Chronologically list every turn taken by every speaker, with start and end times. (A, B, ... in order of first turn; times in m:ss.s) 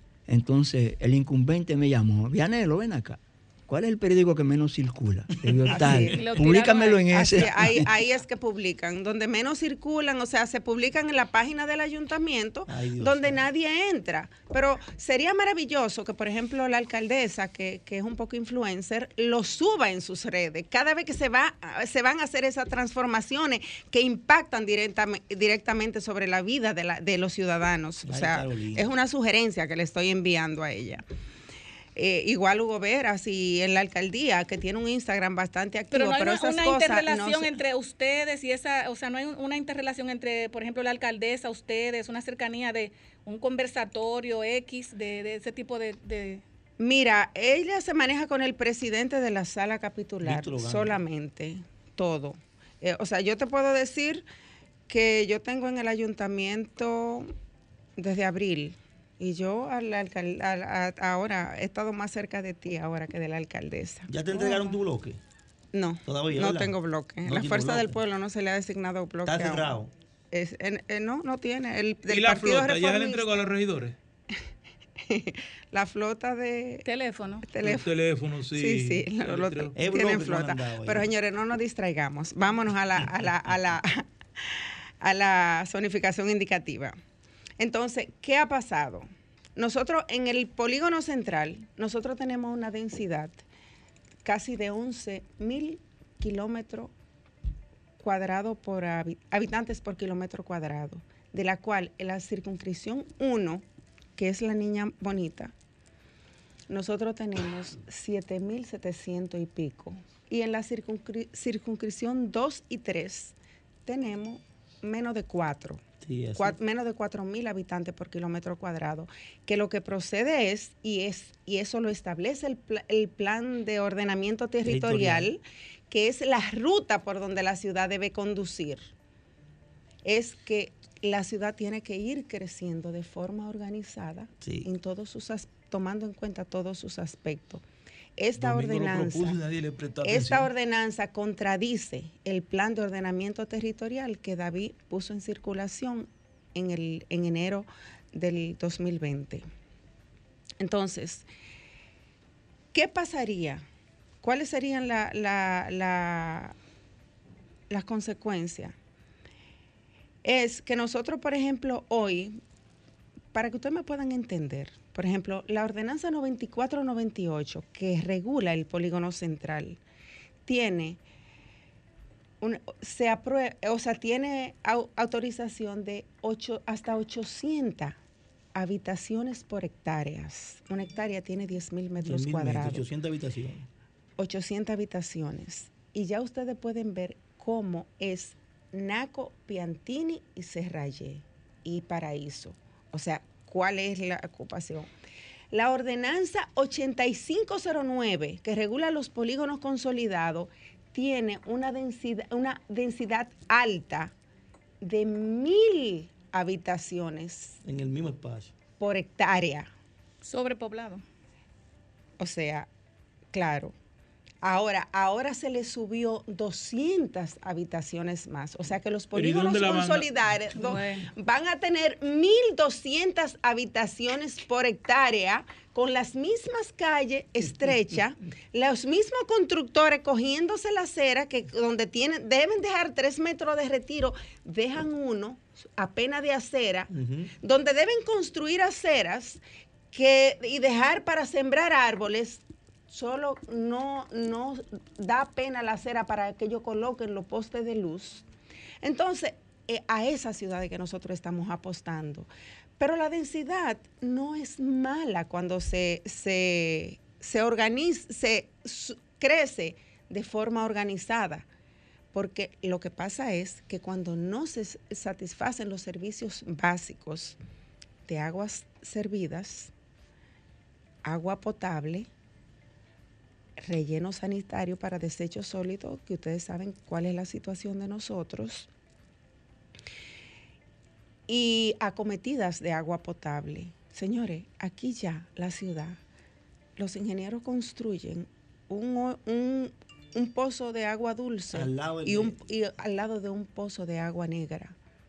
0:00.3-0:07.9 A
0:05.7-0:06.3 B
0:05.8-0:07.5 C
0:07.1-0:31.0 B
0:12.7-0:13.4 D
0:28.1-0:28.9 D
0:32.0-0:37.6 B
0:35.9-0:46.4 C
0:46.8-0:54.2 B
0:50.2-0:51.0 D
0:54.9-0:57.3 B
0:58.0-1:04.7 B
1:04.1-1:05.2 D
1:05.7-1:09.8 B
1:06.1-1:06.7 D
1:07.2-1:08.0 D
1:09.2-1:09.9 D
1:10.3-1:13.4 B
1:12.1-1:14.0 E
1:15.1-1:16.8 B
1:16.8-1:17.5 C
1:17.4-1:18.0 B
1:17.6-1:19.7 E
1:18.5-1:24.1 B
1:19.8-1:21.1 D
1:25.0-1:27.0 B
1:27.6-1:33.4 B
1:34.2-1:36.9 B
1:38.0-1:43.6 B
1:44.2-1:45.5 B
1:46.7-1:53.4 B
1:53.9-1:55.8 B
1:56.0-1:56.6 D
1:56.4-2:08.8 B
2:04.6-2:05.3 D
2:10.0-2:17.6 B
2:14.4-2:14.7 D
2:18.2-2:19.4 B
2:18.4-2:20.5 E
2:20.0-2:29.4 B
2:30.6-2:31.3 B
2:32.7-2:33.6 B
2:34.2-2:36.6 B
2:37.7-2:38.8 B
2:40.2-2:42.4 B
2:43.3-2:49.8 B
2:50.5-2:51.0 B
2:52.4-2:58.0 B
2:58.6-3:02.9 B
3:02.0-3:03.6 D
3:04.2-3:14.9 B
3:15.5-3:24.1 B
3:24.8-3:27.6 B
3:27.6-3:28.5 D
3:28.8-3:29.7 B
3:30.2-3:31.0 C
3:32.2-3:32.7 B
3:33.3-3:33.7 B
3:34.4-3:56.9 B
3:39.1-3:40.1 E
3:40.6-3:41.1 C
3:56.9-3:57.3 D
3:57.4-3:59.4 B
3:59.9-4:08.2 B
4:08.8-4:21.5 B
4:22.1-4:27.4 B
4:28.1-4:29.7 B
4:31.0-4:32.1 B
4:33.6-4:38.7 B
4:41.3-4:46.0 B
4:46.8-4:54.8 B
4:51.5-4:52.4 D